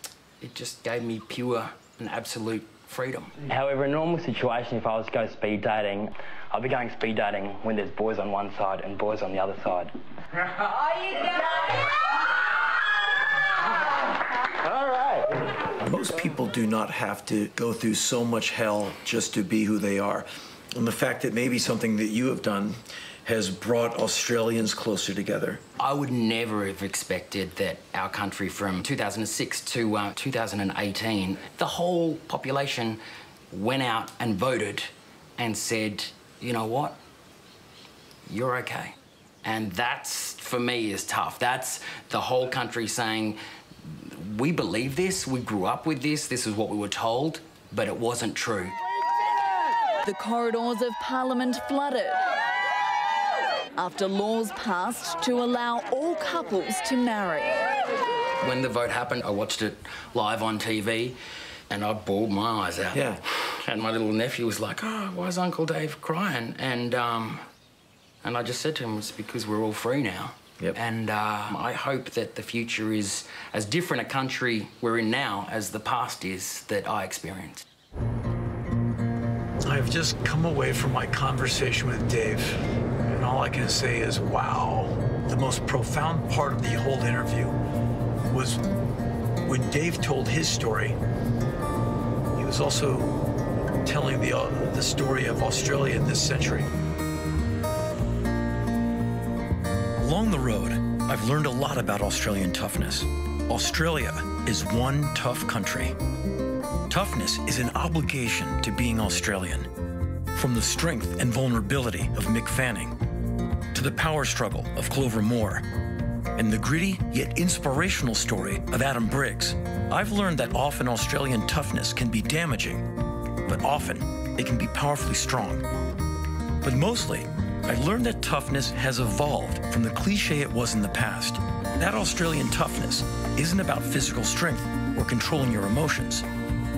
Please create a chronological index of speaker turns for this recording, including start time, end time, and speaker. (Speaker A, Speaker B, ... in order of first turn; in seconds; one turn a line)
Speaker A: 0.4-3.3
Speaker B: 3.4-9.9
Speaker C: 15.8-25.6
Speaker A: 25.8-33.0
Speaker A: 33.5-37.0
Speaker A: 38.2-48.8
Speaker D: 50.0-52.2
Speaker D: 53.8-57.6
Speaker A: 58.4-61.2
Speaker A: 61.7-67.4
Speaker C: 62.9-63.2
Speaker A: 68.2-77.6
Speaker C: 79.6-87.6
Speaker C: 88.3-88.6
Speaker C: 89.4-91.0
Speaker C: 92.3-93.2
Speaker C: 93.8-96.7
Speaker C: 100.0-106.0
Speaker C: 106.9-109.7
Speaker C: 110.3-113.0
Speaker C: 113.7-115.6
Speaker C: 116.3-122.9
Speaker C: 123.4-125.6
Speaker C: 126.6-136.3